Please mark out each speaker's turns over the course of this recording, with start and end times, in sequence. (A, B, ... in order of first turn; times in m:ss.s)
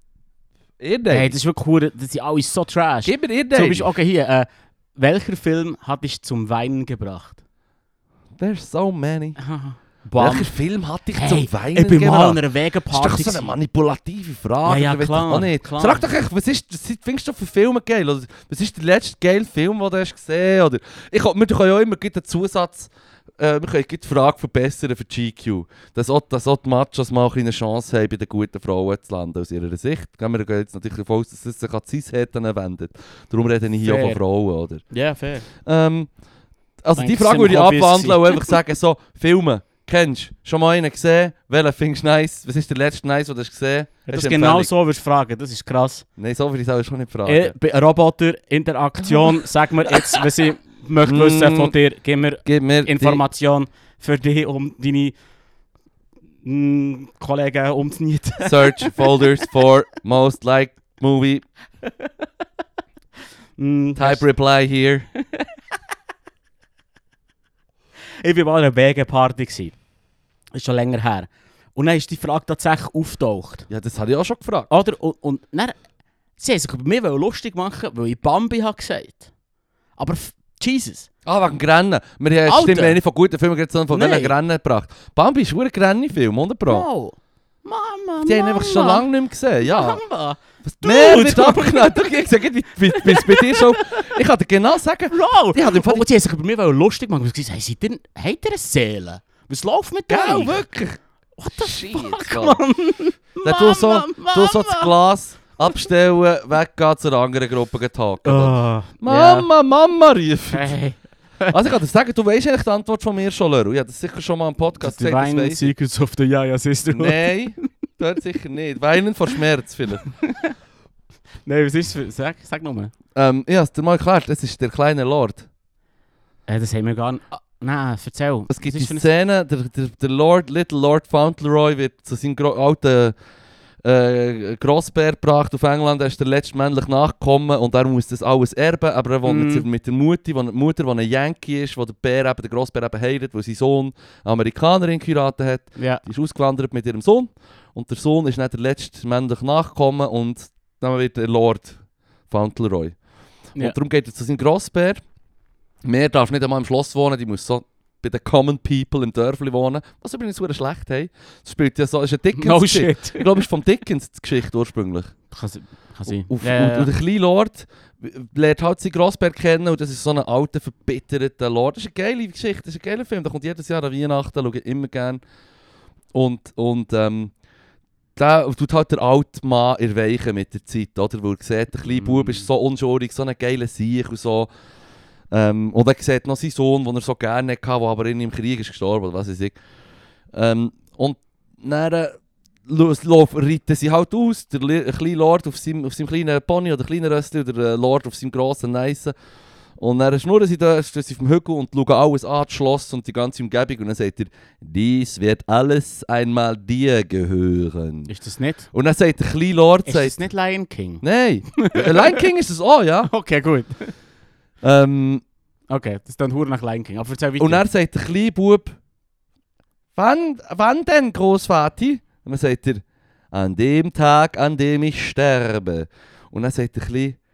0:00.8-0:01.3 A
0:01.1-0:07.4 B
0:03.0-0:03.9 A
0:08.4-0:09.4 A
0:09.4-0:10.5 B
0:10.2-0:34.8 A
0:11.1-0:13.5 B
0:14.6-0:16.1 B
0:33.8-0:34.2 B
0:34.9-0:35.5 B
0:35.5-0:36.1 A
0:36.8-0:44.7 A
0:37.0-0:38.5 B
0:44.1-0:46.0 B
0:46.2-0:47.6 A
0:47.3-0:55.2 B
0:51.0-0:51.7 A
0:52.4-0:53.2 A
0:56.4-0:59.4 B
0:58.4-1:01.4 A
1:03.6-1:04.3 B
1:04.0-1:05.1 A
1:08.2-1:09.8 B
1:10.5-1:13.7 B
1:13.7-1:14.7 A
1:14.7-1:15.8 B
1:16.4-1:19.3 B
1:20.0-1:21.1 B
1:21.3-1:26.9 A
1:22.5-1:23.0 B
1:23.9-1:24.4 B
1:26.7-1:29.0 B
1:28.2-1:30.0 A
1:29.7-1:32.1 B
1:30.6-1:36.1 A
1:32.9-1:34.1 B
1:35.1-1:40.6 B
1:40.1-1:41.0 A
1:41.4-1:44.9 B
1:41.6-1:42.6 A
1:43.4-1:50.8 A
1:48.2-1:49.5 B
1:50.5-1:51.6 B
1:51.5-1:55.7 A
1:54.8-1:57.7 B
1:56.9-2:00.1 A
2:00.2-2:00.5 B
2:01.4-2:02.9 B
2:03.2-2:05.5 A
2:06.5-2:09.1 B
2:08.5-2:13.2 A
2:13.8-2:33.0 A
2:19.2-2:19.6 B
2:25.8-2:26.0 B
2:33.6-2:35.0 A
2:35.8-2:45.2 A
2:42.4-2:43.3 B
2:45.3-2:46.9 B
2:46.1-2:55.2 A
2:56.1-2:57.3 A
2:58.2-3:04.5 A
3:01.8-3:02.5 B
3:05.3-3:09.6 A
3:10.3-3:19.1 A
3:19.8-3:28.1 A
3:28.1-3:28.7 B
3:28.7-3:30.2 A
3:29.9-3:32.2 B
3:31.0-3:33.1 A
3:33.1-3:33.9 B
3:34.6-3:35.2 A
3:35.7-3:37.6 B
3:37.4-3:38.8 A
3:40.0-3:47.2 A